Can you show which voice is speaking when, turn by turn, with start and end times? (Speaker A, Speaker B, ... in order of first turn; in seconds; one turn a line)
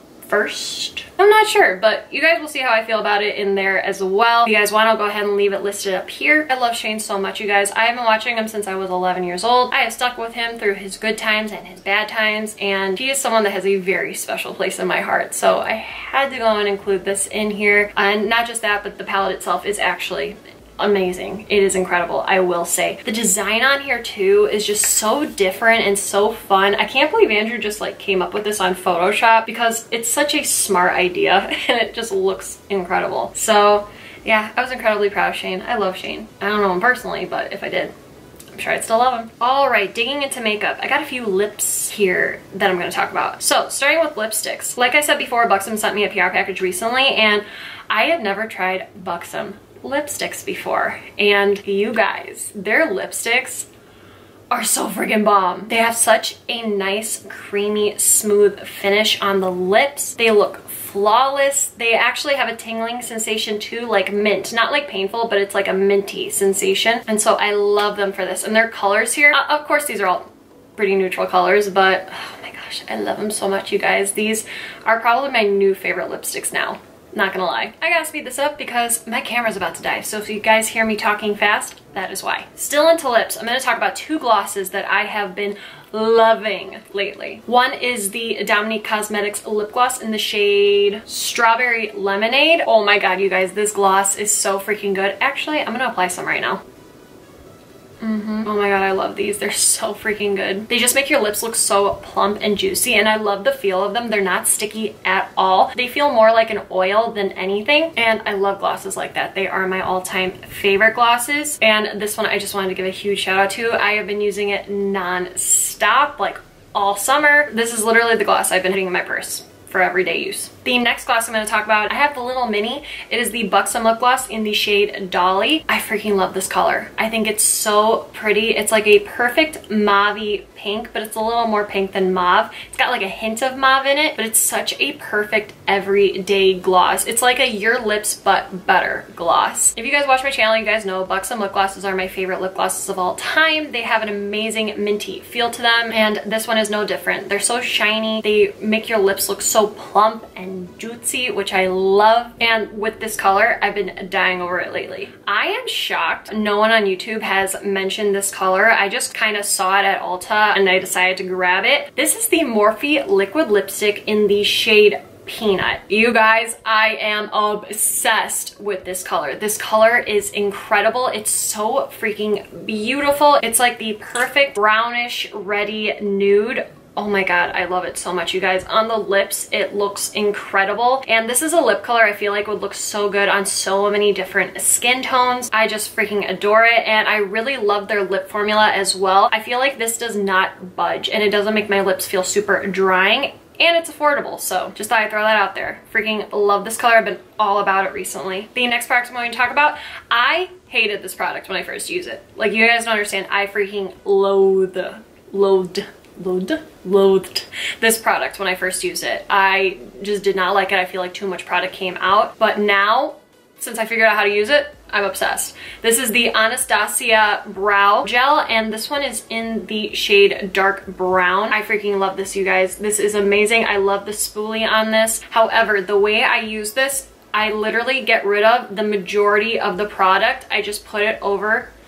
Speaker A: 0.2-37.9
Speaker A: 38.5-53.7
Speaker A: 54.5-96.6
Speaker A: 98.0-231.7